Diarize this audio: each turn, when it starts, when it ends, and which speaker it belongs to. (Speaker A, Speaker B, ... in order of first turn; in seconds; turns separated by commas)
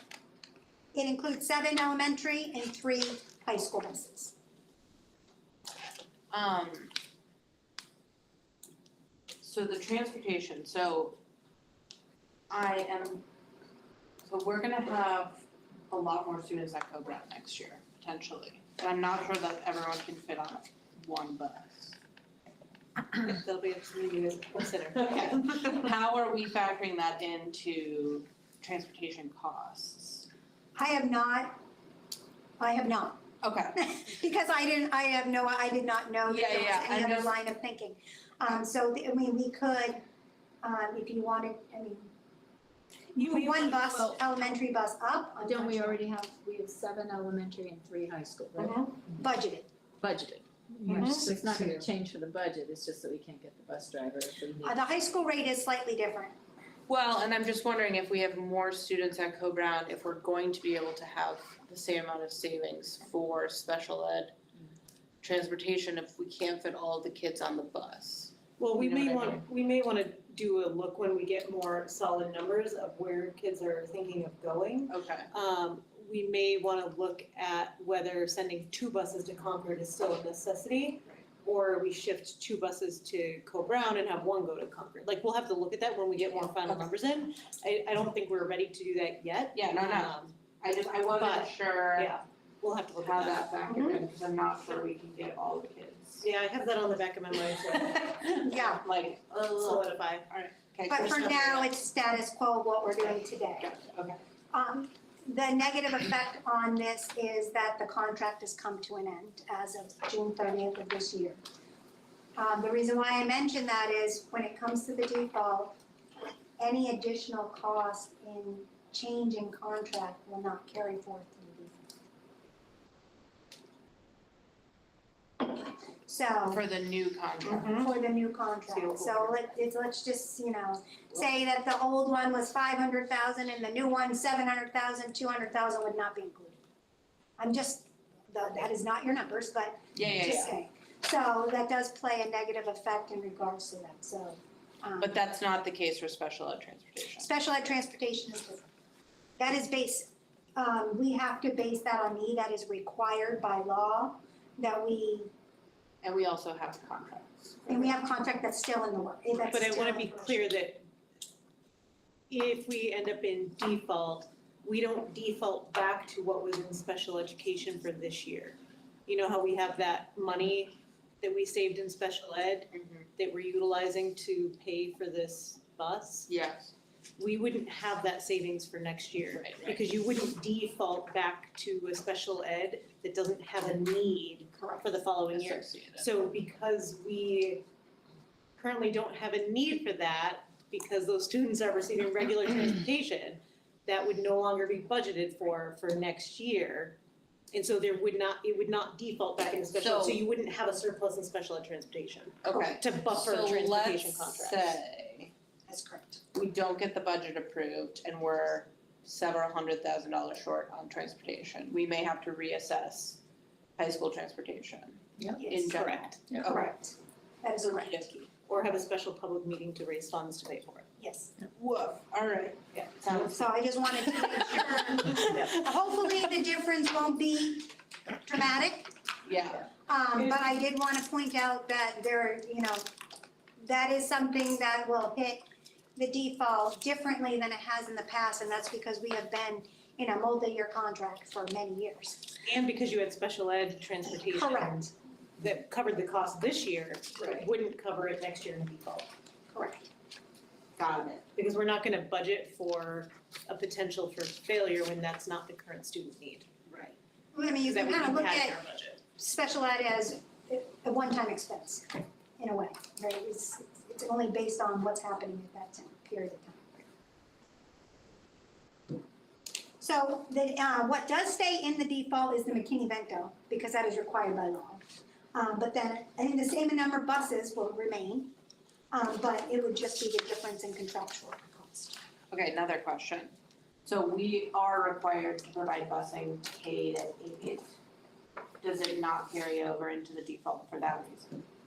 Speaker A: 0.9-4.3, Speaker B: 6.3-6.9, Speaker B: 9.4-11.2, Speaker B: 12.5-13.2, Speaker B: 14.2-22.0, Speaker C: 23.3-25.9, Speaker B: 24.9-30.3, Speaker A: 30.7-31.6, Speaker A: 32.6-33.2, Speaker B: 33.4-33.8, Speaker A: 33.8-40.0, Speaker B: 36.2-37.4, Speaker A: 40.6-42.1, Speaker C: 43.1-44.0, Speaker A: 43.2-46.0, Speaker D: 45.4-49.2, Speaker C: 48.6-48.9, Speaker A: 49.1-49.7, Speaker D: 50.0-54.8, Speaker C: 50.8-51.7, Speaker A: 54.6-56.3, Speaker B: 56.9-64.3, Speaker B: 65.2-69.4, Speaker C: 68.6-90.4, Speaker B: 74.9-75.3, Speaker B: 89.5-92.1, Speaker C: 91.1-94.0, Speaker B: 93.0-96.2, Speaker C: 96.2-98.4, Speaker B: 97.9-101.6, Speaker A: 98.4-98.8, Speaker C: 99.5-100.3, Speaker A: 100.9-103.7, Speaker C: 100.9-101.7, Speaker B: 103.6-104.2, Speaker A: 104.5-111.4, Speaker A: 112.3-115.8, Speaker A: 116.6-121.8, Speaker A: 126.0-126.6, Speaker B: 126.5-127.9, Speaker C: 127.5-127.9, Speaker A: 127.5-136.6, Speaker B: 128.7-129.4, Speaker A: 137.4-145.2, Speaker B: 139.9-140.6, Speaker B: 145.0-147.3, Speaker A: 147.2-148.7, Speaker A: 149.4-155.3, Speaker B: 156.0-157.9, Speaker A: 157.7-160.4, Speaker C: 159.4-160.8, Speaker C: 162.3-176.3, Speaker B: 172.7-173.1, Speaker B: 176.3-176.7, Speaker C: 177.2-187.6, Speaker B: 179.4-179.8, Speaker A: 184.6-184.8, Speaker B: 185.3-186.1, Speaker C: 188.6-197.0, Speaker C: 197.5-204.8, Speaker B: 199.7-200.2, Speaker B: 202.4-205.3, Speaker A: 205.7-206.2, Speaker B: 206.3-213.2, Speaker B: 213.8-216.7, Speaker A: 215.4-215.7, Speaker C: 215.6-216.2, Speaker A: 216.4-218.1, Speaker B: 217.7-218.3, Speaker C: 218.5-220.9, Speaker A: 221.0-221.3, Speaker B: 221.5-223.4, Speaker C: 222.7-223.2, Speaker A: 223.2-227.7, Speaker B: 224.3-225.0, Speaker C: 225.2-225.5, Speaker A: 228.2-228.9, Speaker B: 229.2-229.7, Speaker A: 229.9-232.9, Speaker C: 230.2-230.4, Speaker A: 233.6-235.4, Speaker A: 235.9-242.3, Speaker C: 242.4-249.1, Speaker A: 244.3-244.9, Speaker A: 249.5-249.9, Speaker B: 250.8-251.2, Speaker C: 251.3-256.5, Speaker B: 256.7-256.9, Speaker A: 257.3-258.6, Speaker C: 257.6-259.0, Speaker A: 259.1-266.8, Speaker A: 269.8-278.3, Speaker A: 278.9-282.0, Speaker B: 282.3-283.3, Speaker B: 283.8-287.7, Speaker B: 288.6-291.4